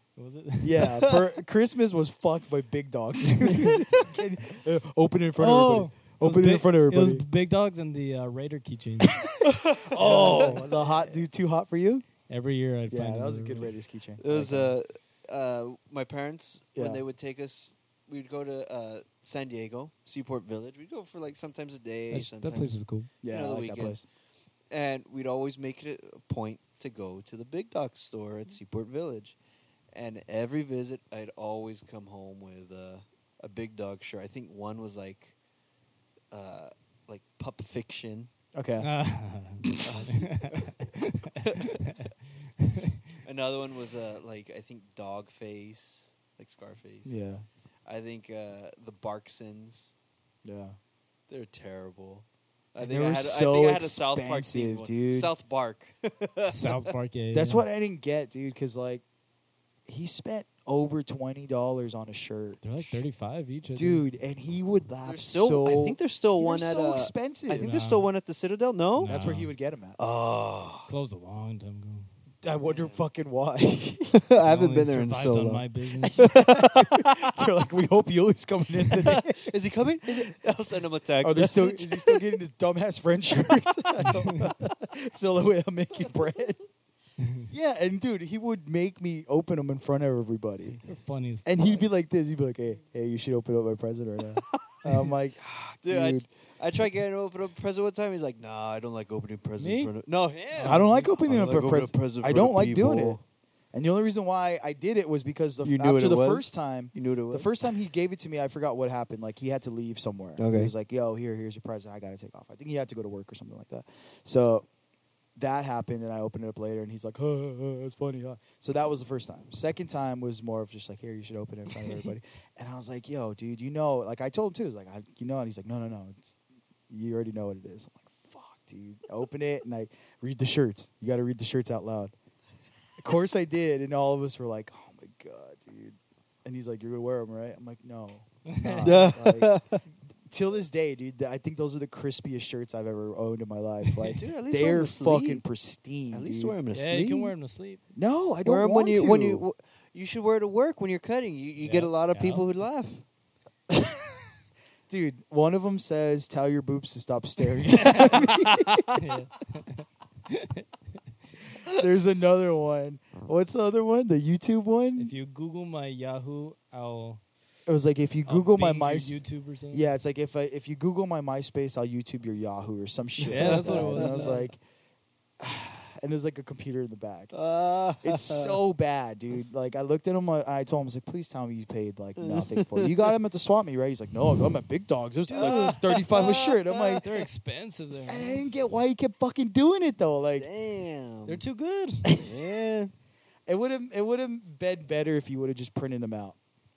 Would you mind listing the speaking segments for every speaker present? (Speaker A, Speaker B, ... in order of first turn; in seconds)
Speaker A: 0.2-1.2, 3.5-3.8, 5.4-9.3, 9.9-11.2, 12.3-13.7, 22.1-23.1, 38.8-42.9, 56.5-57.6, 62.6-64.1, 67.5-68.1, 69.0-69.5, 70.9-72.1, 74.4-76.3, 84.1-84.4, 90.8-91.9, 99.6-100.0, 100.5-101.2, 138.4-139.1, 146.7-147.8, 151.6-152.5, 158.9-160.7, 165.0-167.2, 168.3-169.9, 173.3-174.5, 185.3-186.0, 187.0-188.4, 191.3-192.2
Speaker B: 0.6-7.3, 9.2-12.1, 12.9-14.8, 16.8-17.0, 23.2-24.1, 38.5-38.9, 47.0-47.5, 50.4-50.8, 52.8-55.3, 57.3-59.0, 59.9-62.6, 63.8-67.8, 69.0-70.0, 72.4-74.2, 76.2-79.5, 81.2-86.6, 87.5-90.8, 91.4-96.3, 100.6-103.2, 103.7-114.7, 115.4-126.4, 126.9-132.1, 133.0-139.5, 140.3-146.6, 147.9-149.4, 153.7-154.1, 154.9-158.8, 161.6-165.1, 167.7-174.6, 175.4-177.3, 178.0-187.0, 188.1-190.5, 193.5-196.4
Speaker C: 10.0-10.7, 14.2-24.0, 24.7-29.4, 29.9-35.4, 36.3-38.3, 39.8-40.7, 43.2-47.1, 47.9-49.9, 51.3-56.9, 65.0-69.1, 70.0-70.9, 72.6-73.0, 74.1-77.3, 78.9-82.2, 84.0-84.6, 94.5-94.8, 95.8-103.2, 105.6-107.6, 110.4-110.7, 138.8-139.8, 144.1-145.4, 146.1-147.3, 148.4-153.0, 158.1-158.9, 173.2-174.4, 177.3-178.6, 182.2-182.9, 185.4-187.0, 190.4-191.4, 192.2-192.9